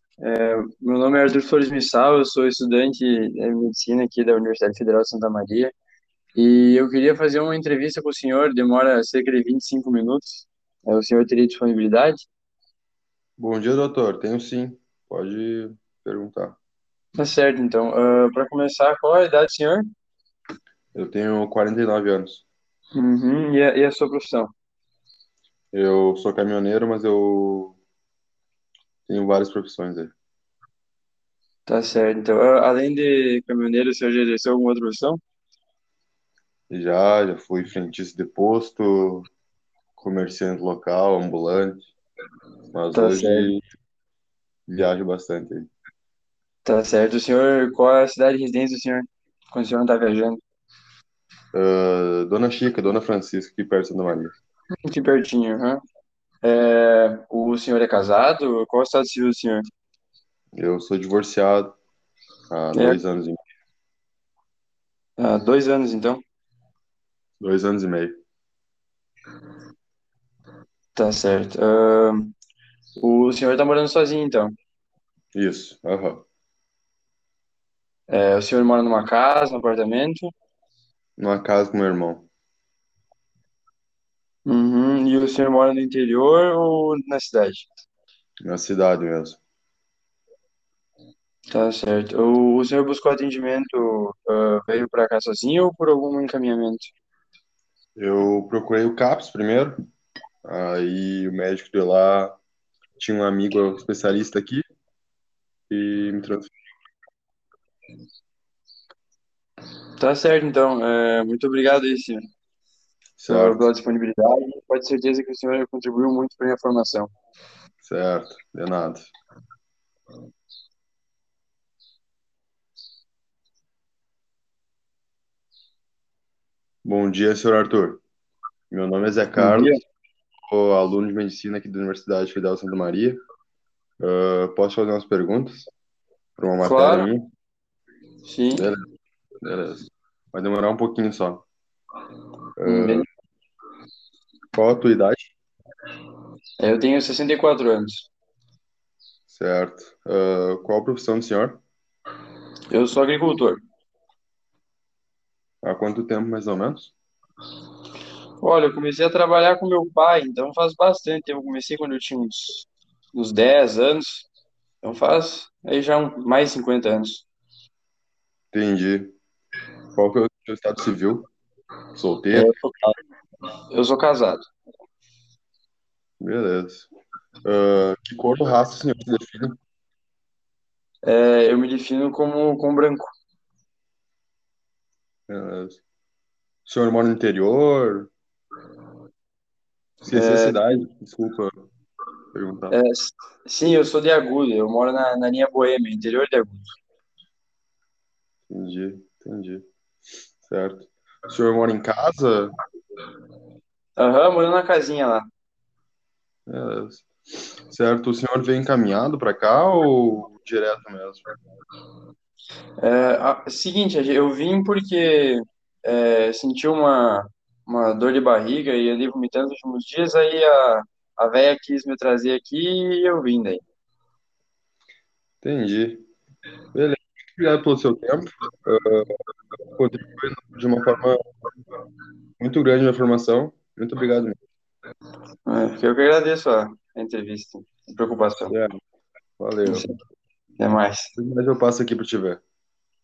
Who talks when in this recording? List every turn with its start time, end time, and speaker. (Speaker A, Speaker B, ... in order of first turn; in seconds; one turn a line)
Speaker A: 0.2-5.7
Speaker A: 6.3-12.3
Speaker B: 13.4-16.6
Speaker A: 17.1-19.9
Speaker B: 20.9-22.4
Speaker A: 22.9-24.5
Speaker B: 25.7-27.8
Speaker B: 29.1-30.1
Speaker A: 31.6-35.2
Speaker B: 36.7-39.3
Speaker B: 40.0-41.9
Speaker B: 42.7-43.6
Speaker A: 42.9-43.6
Speaker B: 44.7-45.7
Speaker A: 46.6-50.4
Speaker B: 51.5-54.3
Speaker A: 54.8-55.8
Speaker A: 56.4-59.6
Speaker B: 60.5-61.8
Speaker B: 62.5-63.4
Speaker A: 62.7-63.0
Speaker A: 65.2-66.2
Speaker B: 67.4-68.1
Speaker A: 70.9-72.3
Speaker A: 73.0-74.5
Speaker B: 75.3-76.2
Speaker A: 78.1-80.3
Speaker B: 81.2-82.3
Speaker A: 84.5-87.7
Speaker B: 88.4-89.4
Speaker A: 91.5-96.9
Speaker B: 98.0-99.8
Speaker B: 100.4-102.4
Speaker B: 103.0-104.6
Speaker B: 105.7-106.5
Speaker A: 110.0-112.3
Speaker B: 113.2-113.7
Speaker A: 113.3-117.1
Speaker B: 117.8-119.1
Speaker B: 126.8-128.0
Speaker B: 128.7-129.7
Speaker A: 129.4-129.8
Speaker B: 130.5-133.2
Speaker B: 134.0-135.7
Speaker B: 136.4-137.3
Speaker A: 136.6-137.1
Speaker A: 138.2-138.7
Speaker B: 138.5-138.8
Speaker B: 139.4-141.4
Speaker B: 142.6-143.0
Speaker A: 142.6-143.1
Speaker B: 144.5-145.3
Speaker A: 146.6-148.1
Speaker B: 149.3-151.6
Speaker A: 152.7-153.6
Speaker B: 155.6-156.9
Speaker A: 158.4-164.3
Speaker A: 164.8-167.2
Speaker B: 168.5-169.1
Speaker B: 169.9-171.3
Speaker B: 171.9-172.5
Speaker A: 172.3-172.9
Speaker A: 173.7-174.5
Speaker B: 176.2-176.9
Speaker B: 177.4-179.6
Speaker A: 181.0-183.1
Speaker B: 185.3-185.8
Speaker B: 186.6-188.1
Speaker B: 190.0-191.5
Speaker A: 190.1-190.6
Speaker B: 192.3-192.8
Speaker A: 192.7-196.8
Speaker B: 198.5-199.6
Speaker B: 200.4-202.5
Speaker A: 204.0-205.3
Speaker B: 206.5-207.1
Speaker B: 207.7-211.2
Speaker A: 212.8-223.6
Speaker B: 225.4-226.1
Speaker B: 226.7-229.1
Speaker B: 229.7-231.2
Speaker B: 232.4-234.3
Speaker A: 235.5-238.5
Speaker B: 238.5-238.8
Speaker B: 239.4-239.9
Speaker A: 239.7-239.9
Speaker A: 240.6-241.1
Speaker B: 241.2-242.4